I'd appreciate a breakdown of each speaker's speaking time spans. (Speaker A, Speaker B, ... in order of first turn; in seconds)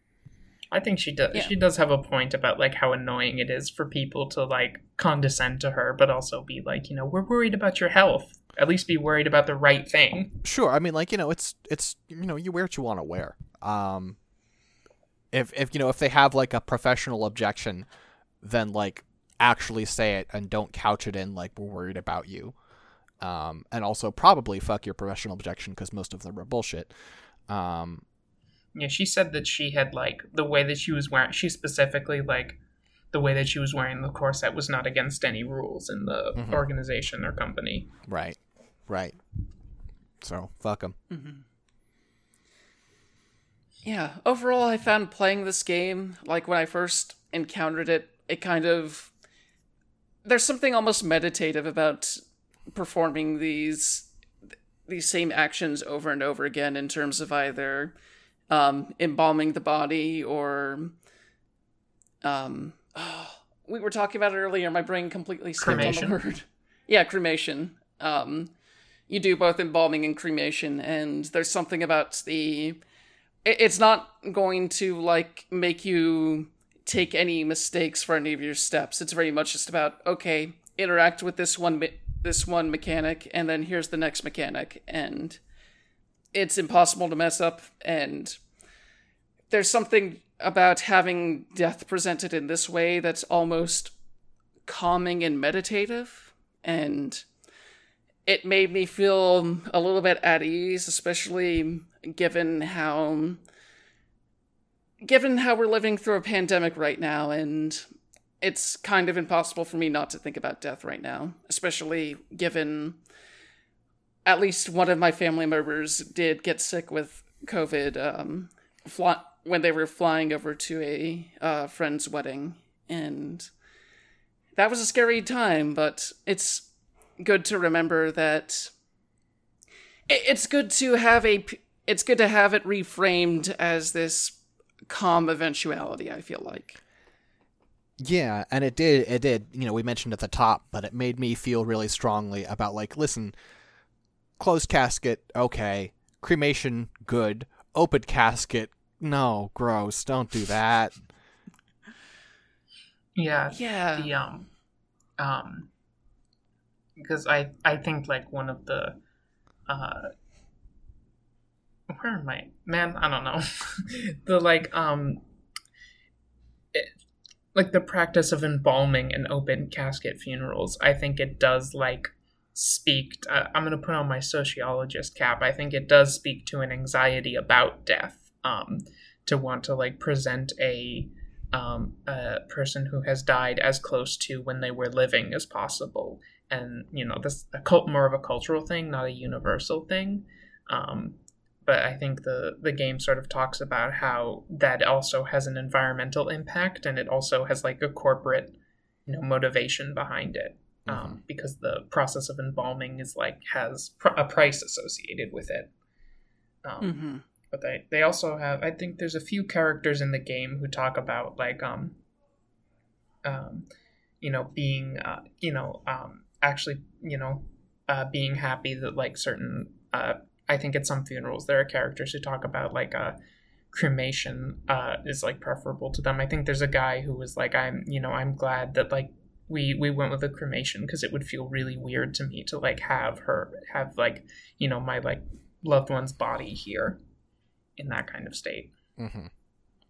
Speaker A: 0.7-10.4, 28.7-32.6, 33.1-37.9, 65.6-66.2, 153.2-154.5, 155.2-155.7, 157.0-159.0, 159.7-160.1, 161.9-165.2, 167.5-205.7, 206.6-212.0, 213.2-213.7, 214.2-223.2, 223.7-237.0, 237.8-238.7
Speaker B: 10.4-14.2, 15.3-17.9, 18.4-22.6, 23.2-26.9, 27.5-28.0, 36.4-36.6, 38.0-39.2, 40.2-41.0, 138.0-143.3, 144.4-151.0, 200.9-201.2, 239.0-239.3
Speaker C: 41.1-41.4, 43.8-49.1, 50.2-52.2, 52.7-54.1, 54.9-57.9, 58.5-61.0, 62.2-68.5, 69.1-72.8, 73.4-85.4, 86.3-88.4, 89.5-93.9, 94.7-97.2, 98.2-103.4, 105.0-107.8, 108.4-113.0, 114.2-123.5, 124.5-126.7, 127.2-128.7, 130.1-136.8, 153.5-154.1, 206.8-207.2